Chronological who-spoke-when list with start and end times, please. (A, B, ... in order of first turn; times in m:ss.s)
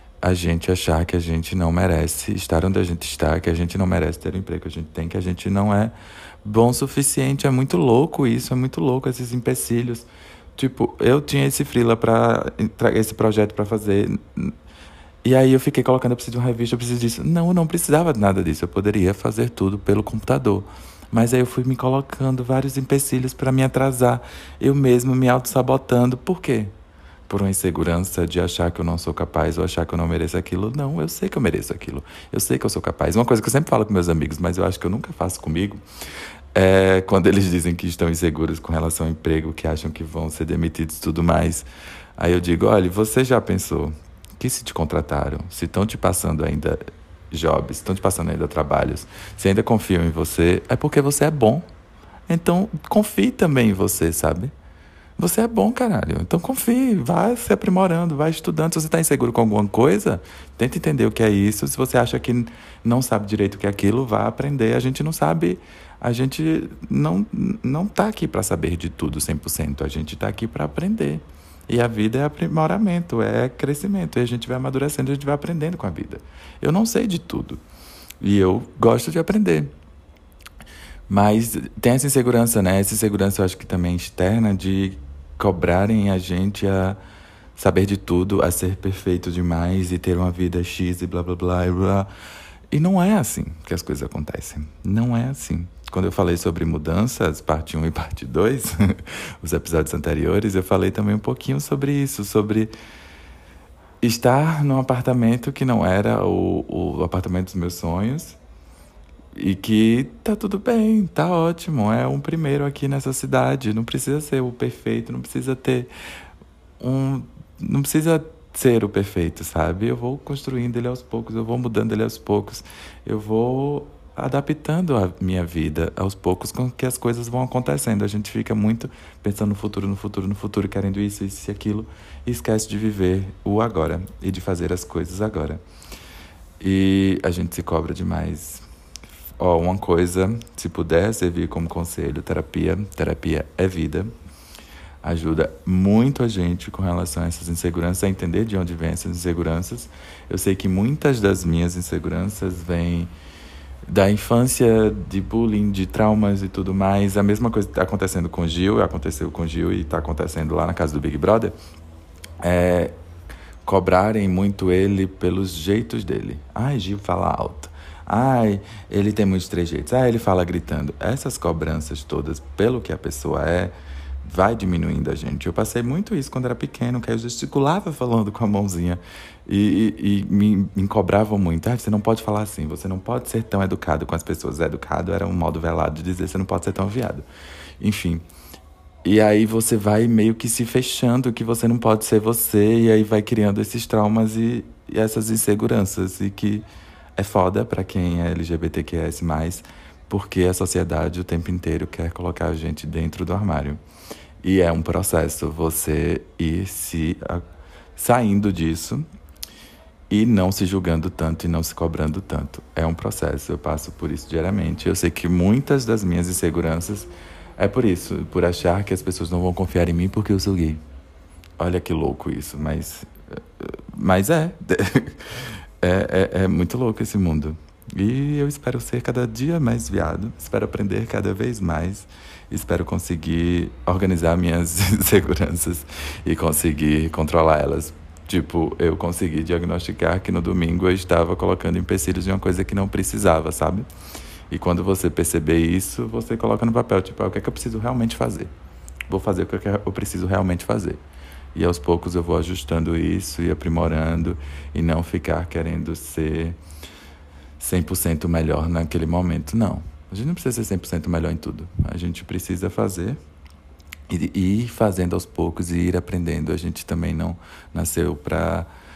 0:00.2-0:14.5 A
0:15.2-0:26.7 A
0:27.3-0:35.8 A
0:36.5-0:41.6 A
0:42.2-0:46.8 A
0:47.3-0:51.6 A
0:52.3-0:54.5 A
0:55.2-1:17.6 A
1:18.2-1:19.7 A
1:21.1-1:27.0 A
1:27.6-1:32.1 A
1:32.7-1:42.7 A
1:44.0-1:48.4 A
1:49.3-1:55.9 A
1:56.8-2:15.6 A
2:16.6-2:18.6 A
2:19.4-2:24.1 A
2:25.0-2:33.1 A
2:33.9-2:41.5 A
2:42.4-2:42.9 A
2:43.6-3:07.2 A
3:07.8-3:08.2 A
3:09.0-3:23.8 A
3:24.4-3:27.4 A
3:28.0-3:29.0 A
3:30.1-3:40.8 A
3:41.6-3:43.1 A
3:43.6-4:03.9 A
4:04.5-4:08.5 A
4:09.1-4:11.0 A
4:11.5-4:16.6 A
4:17.6-4:23.2 A
4:24.1-4:28.7 A